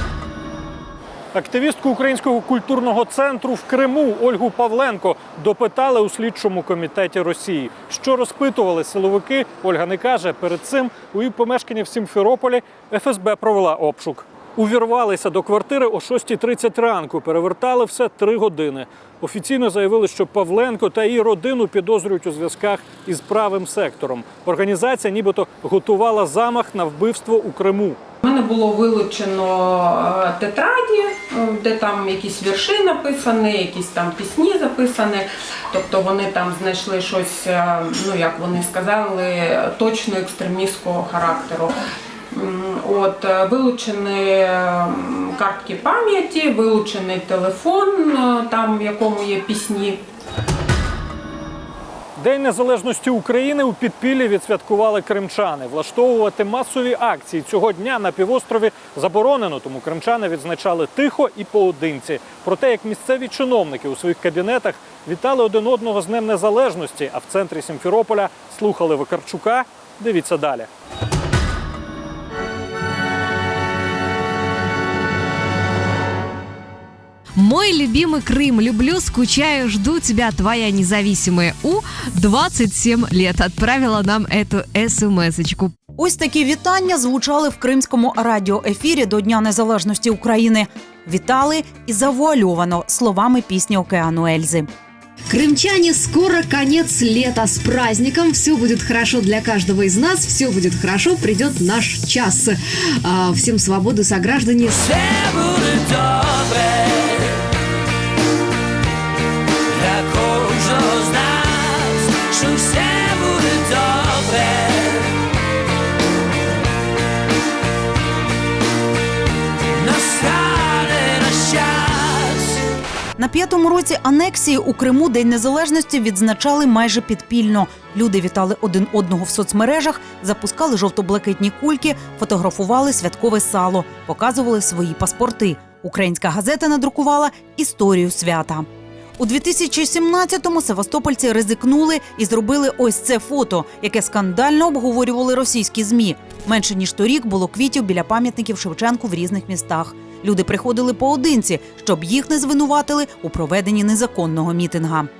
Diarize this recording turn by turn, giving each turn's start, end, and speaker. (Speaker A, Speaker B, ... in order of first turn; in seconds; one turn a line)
Speaker A: 1.3-28.0
Speaker B: 28.2-41.8
Speaker B: 42.3-50.0
Speaker A: 52.2-70.7
Speaker C: 77.4-85.7
Speaker D: 86.0-94.7
Speaker C: 95.3-104.8
Speaker E: 104.8-107.3
Speaker E: 109.7-115.1
Speaker E: 119.8-122.6
Speaker D: 123.2-155.1